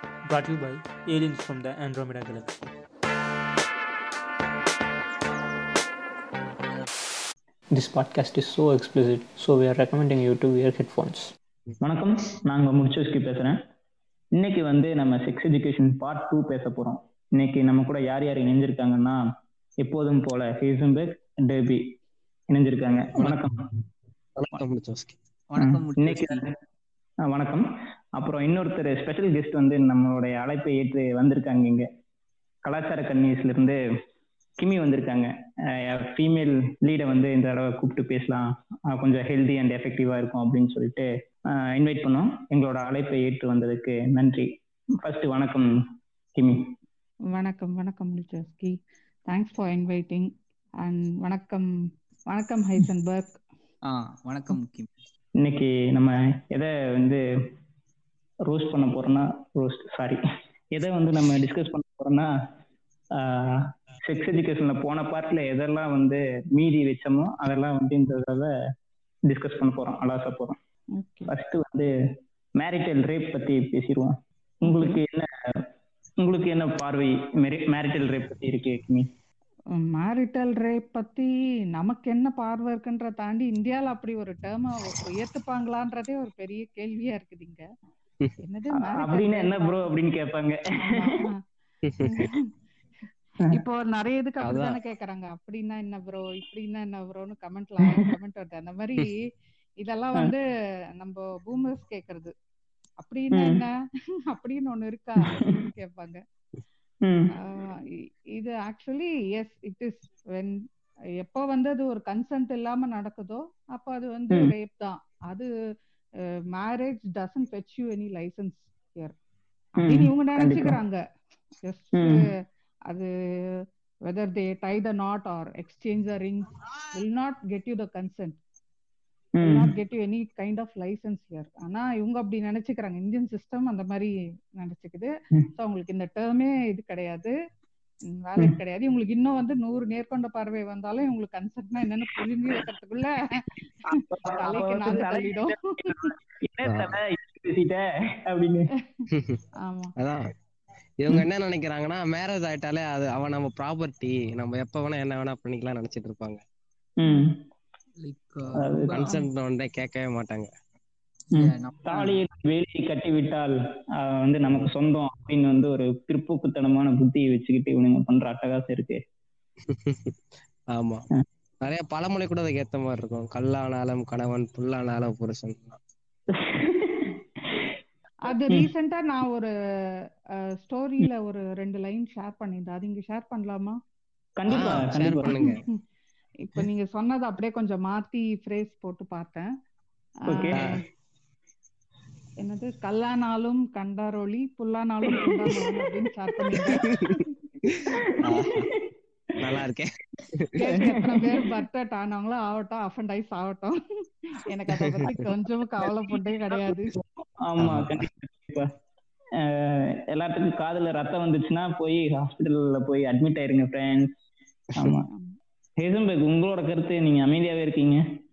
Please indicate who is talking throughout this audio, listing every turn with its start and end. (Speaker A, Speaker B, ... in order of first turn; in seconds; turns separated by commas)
Speaker A: 0.3-2.7, Speaker A: 7.7-11.3, Speaker B: 11.8-13.6, Speaker B: 14.4-19.2, Speaker B: 19.8-21.9, Speaker B: 22.5-23.7, Speaker C: 24.4-25.2, Speaker D: 25.5-26.4, Speaker B: 25.6-26.5, Speaker B: 27.3-27.7, Speaker B: 28.2-31.9, Speaker B: 32.6-33.8, Speaker B: 34.6-45.7, Speaker B: 46.4-46.7, Speaker E: 47.3-48.8, Speaker E: 49.3-51.7, Speaker E: 52.3-53.4, Speaker D: 53.9-54.9, Speaker B: 55.4-57.2, Speaker B: 58.5-60.2, Speaker B: 60.7-62.3, Speaker B: 63.1-68.5, Speaker B: 69.3-70.6, Speaker E: 71.0-71.3, Speaker B: 71.3-71.9, Speaker B: 72.6-74.1, Speaker E: 74.7-75.0, Speaker B: 74.7-75.7, Speaker B: 76.2-79.1, Speaker E: 79.7-87.7, Speaker E: 88.4-89.9, Speaker B: 88.8-91.1, Speaker E: 90.8-91.4, Speaker C: 91.9-92.1, Speaker E: 92.0-92.5, Speaker E: 93.5-99.2, Speaker C: 94.4-94.8, Speaker E: 99.8-100.4, Speaker E: 101.0-102.3, Speaker E: 103.0-103.7, Speaker B: 103.3-103.6, Speaker E: 104.3-106.2, Speaker B: 107.0-107.3, Speaker E: 107.3-110.6, Speaker E: 111.2-115.5, Speaker E: 116.2-119.2, Speaker E: 119.8-121.0, Speaker B: 119.8-120.8, Speaker E: 121.6-122.3, Speaker E: 122.9-128.4, Speaker B: 129.4-129.7, Speaker E: 129.4-137.3, Speaker E: 138.1-146.1, Speaker B: 143.9-148.7, Speaker C: 146.7-147.0, Speaker C: 149.1-149.4, Speaker E: 149.6-149.9, Speaker C: 151.0-156.4, Speaker B: 157.0-157.4, Speaker D: 158.0-159.2, Speaker B: 158.6-159.1, Speaker C: 158.9-160.5, Speaker D: 161.3-162.2, Speaker B: 161.3-169.0, Speaker C: 169.7-170.2, Speaker C: 170.7-171.1, Speaker C: 171.6-175.8, Speaker B: 176.3-177.7, Speaker E: 178.2-179.5, Speaker E: 180.6-183.8, Speaker B: 184.4-185.4, Speaker C: 184.5-185.6, Speaker E: 185.2-185.8, Speaker E: 186.4-189.5, Speaker B: 190.3-190.7, Speaker E: 190.3-190.8, Speaker E: 192.4-197.3, Speaker B: 195.1-195.9, Speaker B: 196.4-196.8, Speaker C: 196.8-197.2, Speaker C: 197.7-198.7, Speaker B: 197.9-198.9, Speaker C: 199.4-200.5, Speaker E: 200.6-206.9, Speaker B: 200.7-201.5, Speaker C: 204.7-205.2, Speaker B: 207.4-208.7, Speaker C: 207.6-208.1, Speaker B: 209.4-214.1, Speaker B: 214.8-215.1, Speaker E: 215.1-215.4, Speaker B: 215.8-218.0